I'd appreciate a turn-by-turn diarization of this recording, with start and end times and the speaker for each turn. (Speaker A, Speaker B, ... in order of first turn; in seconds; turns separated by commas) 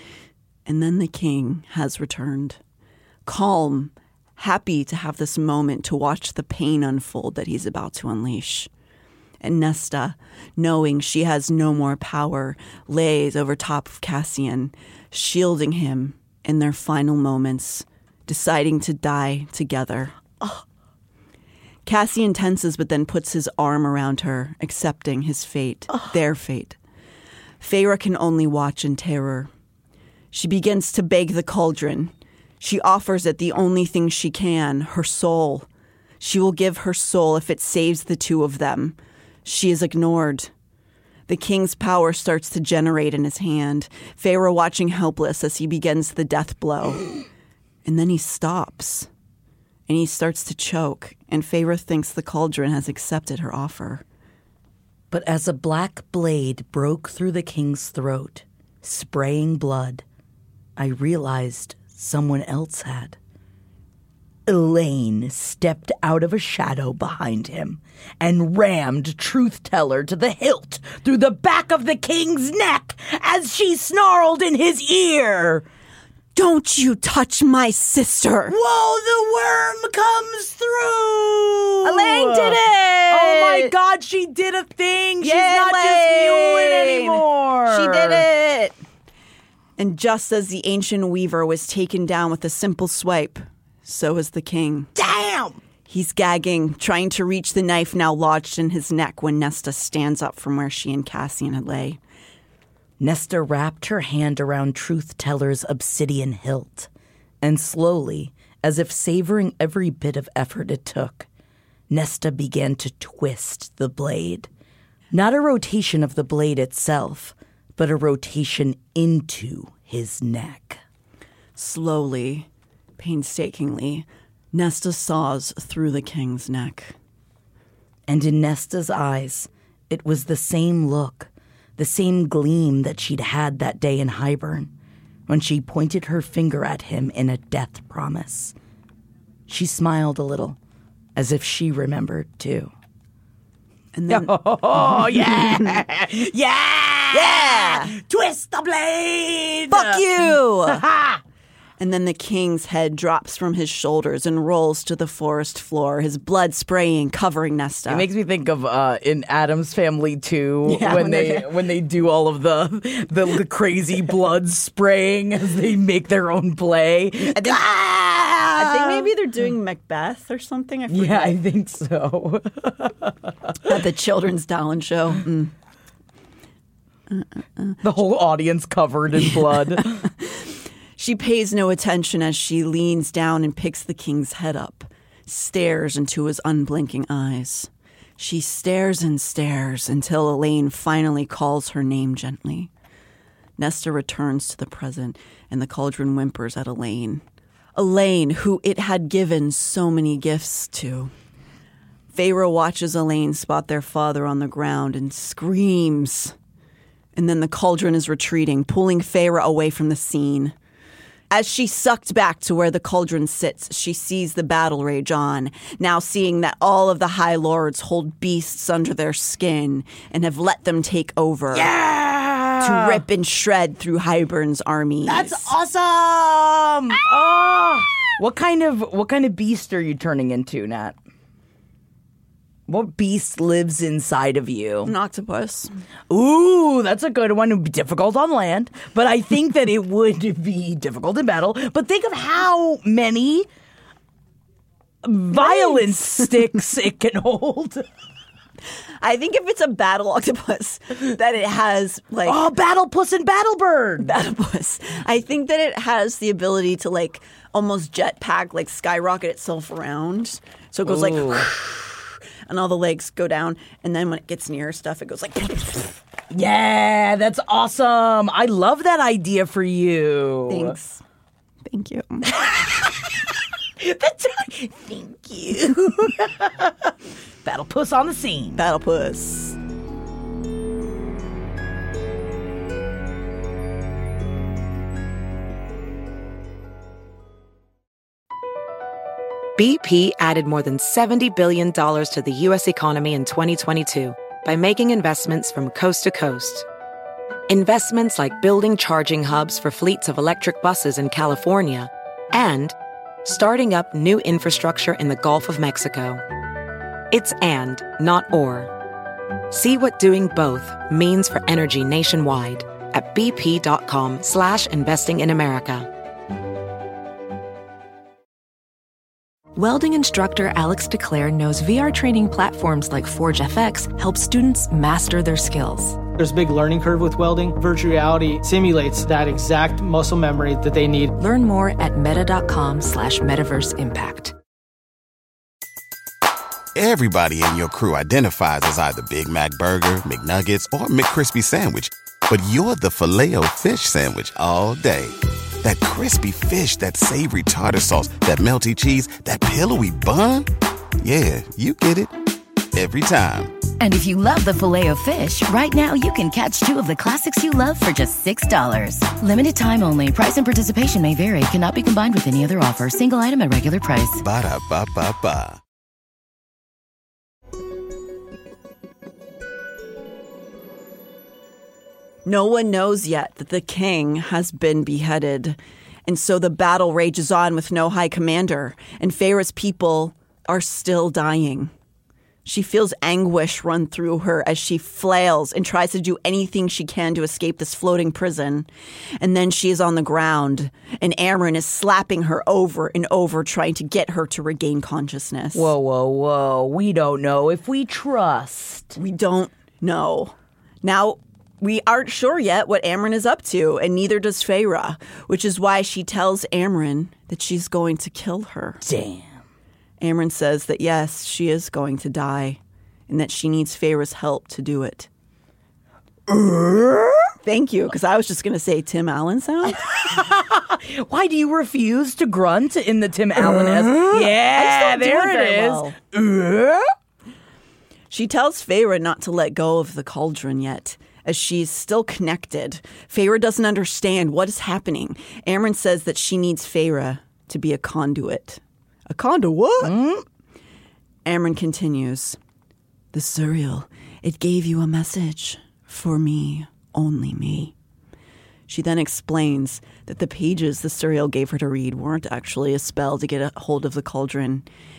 Speaker A: 0.7-2.6, Speaker A: 3.2-8.7, Speaker A: 9.4-20.2, Speaker A: 21.9-26.8, Speaker A: 27.6-29.5, Speaker A: 30.3-35.7, Speaker A: 36.2-40.5, Speaker A: 41.3-47.1, Speaker A: 47.8-49.1, Speaker A: 49.9-54.0, Speaker B: 55.1-60.0, Speaker B: 60.8-63.2, Speaker B: 64.5-75.6, Speaker A: 76.3-78.5, Speaker B: 78.5-88.3, Speaker A: 81.8-83.7, Speaker A: 85.2-88.8, Speaker A: 89.8-94.9, Speaker B: 95.0-95.6, Speaker A: 95.9-102.0, Speaker B: 103.0-106.9, Speaker B: 107.4-111.3, Speaker B: 111.9-114.5, Speaker B: 115.1-120.8, Speaker A: 121.5-126.9, Speaker B: 128.1-134.7, Speaker B: 135.3-138.5, Speaker B: 139.5-140.6, Speaker B: 141.1-142.7, Speaker A: 143.9-145.8, Speaker B: 144.1-151.2, Speaker A: 147.1-147.9, Speaker A: 149.7-150.8, Speaker A: 151.8-158.1, Speaker B: 157.9-169.1, Speaker A: 160.6-161.5, Speaker A: 167.2-167.6, Speaker A: 168.5-171.4, Speaker B: 170.9-173.5, Speaker A: 173.6-175.5, Speaker A: 177.1-177.8, Speaker B: 177.8-180.1, Speaker A: 180.2-180.4, Speaker A: 181.0-192.7, Speaker A: 193.6-197.2, Speaker A: 197.8-201.1, Speaker A: 202.1-206.3, Speaker A: 207.2-210.5, Speaker A: 211.3-221.7, Speaker B: 221.5-223.0, Speaker A: 222.6-225.5, Speaker B: 225.1-230.9, Speaker B: 232.7-234.9, Speaker A: 234.8-235.7, Speaker B: 236.1-243.5, Speaker B: 245.0-247.9, Speaker A: 245.3-246.5, Speaker A: 249.0-252.4, Speaker B: 252.2-254.1, Speaker A: 254.0-261.8, Speaker B: 260.8-261.6, Speaker A: 262.5-266.0, Speaker B: 266.3-270.8, Speaker A: 270.5-271.0, Speaker A: 271.6-272.3, Speaker B: 272.2-278.6, Speaker A: 278.6-279.6, Speaker C: 289.6-296.7, Speaker C: 297.5-306.2, Speaker C: 307.1-308.7, Speaker C: 309.5-315.9, Speaker D: 319.6-326.0, Speaker E: 326.1-331.1, Speaker D: 331.2-334.3, Speaker F: 336.7-350.5, Speaker F: 351.0-352.1, Speaker F: 352.7-353.5, Speaker G: 353.8-364.2, Speaker F: 364.2-365.6, Speaker A: 372.2-381.7, Speaker A: 382.4-388.7, Speaker A: 389.2-395.7, Speaker B: 395.5-399.0, Speaker A: 399.0-408.8, Speaker B: 408.8-409.4, Speaker A: 410.0-415.1, Speaker B: 416.3-417.3, Speaker A: 417.4-419.8, Speaker B: 419.6-426.9, Speaker A: 423.4-426.0, Speaker A: 428.1-439.9, Speaker B: 439.8-440.2, Speaker A: 441.2-442.4, Speaker A: 443.1-447.7, Speaker A: 448.7-454.6